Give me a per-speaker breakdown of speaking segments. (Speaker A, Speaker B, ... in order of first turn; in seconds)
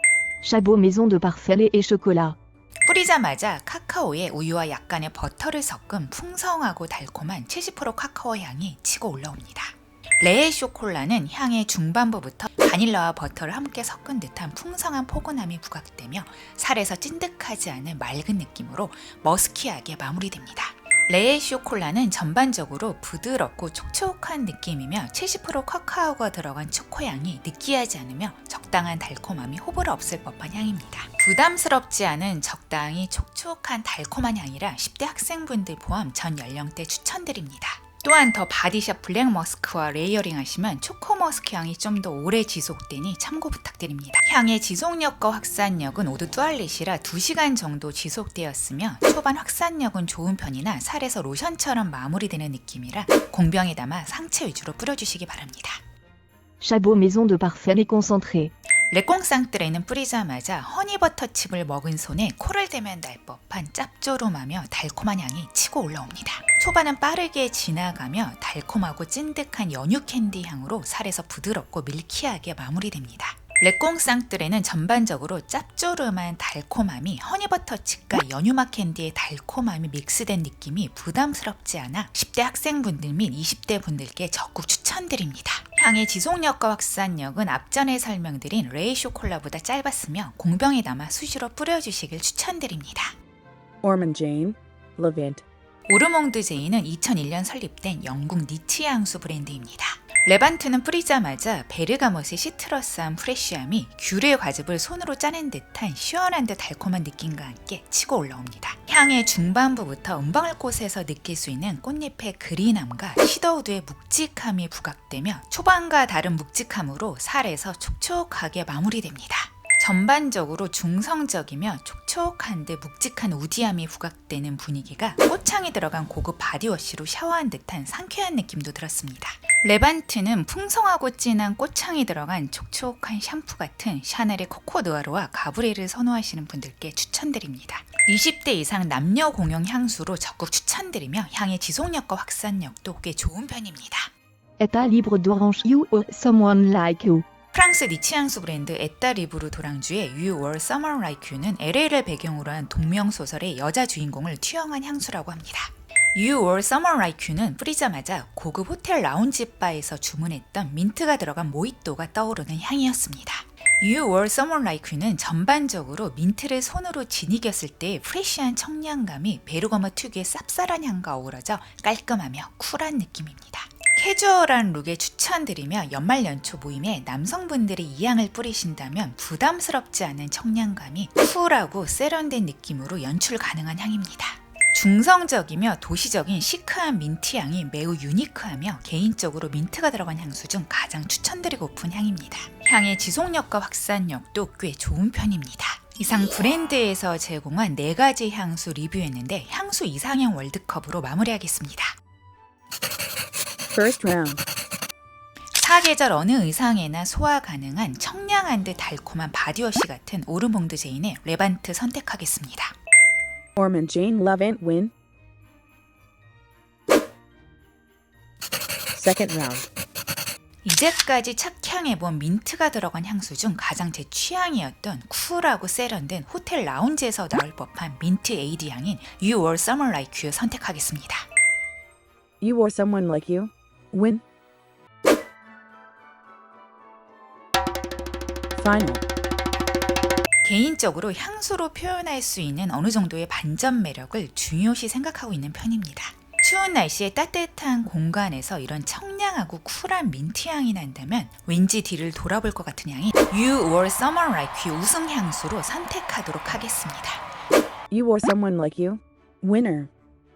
Speaker A: 0.4-2.4, 56.6-58.5, 144.6-147.2
Speaker B: 2.8-55.8, 58.9-93.1, 95.9-144.1, 147.5-201.9, 205.5-212.7, 220.6-231.2, 240.4-257.2
Speaker C: 93.8-95.4, 203.7-204.4, 213.6-214.9, 218.9-219.7, 232.4-234.2, 238.6-239.0, 257.9-259.9